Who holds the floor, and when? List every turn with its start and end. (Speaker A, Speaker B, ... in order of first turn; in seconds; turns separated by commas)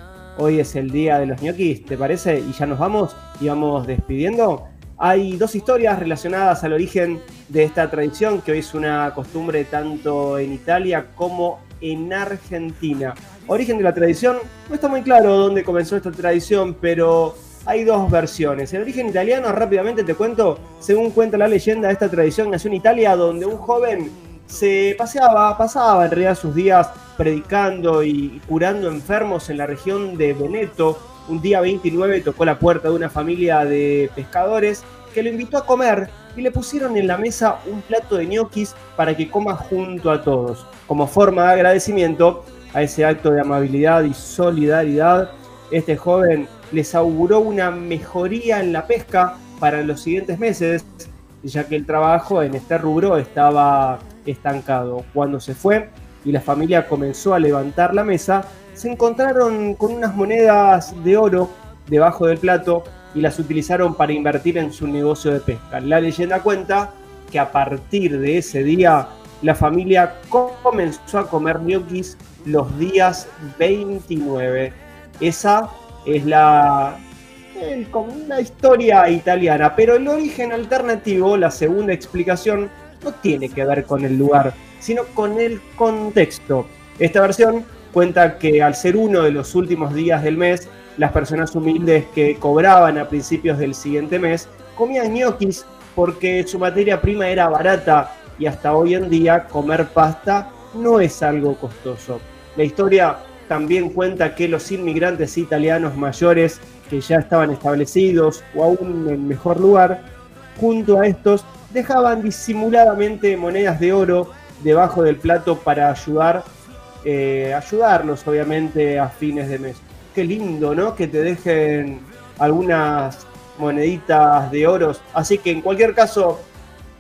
Speaker A: 0.4-77.0, Speaker A: 77.5-116.5, Speaker A: 117.0-126.5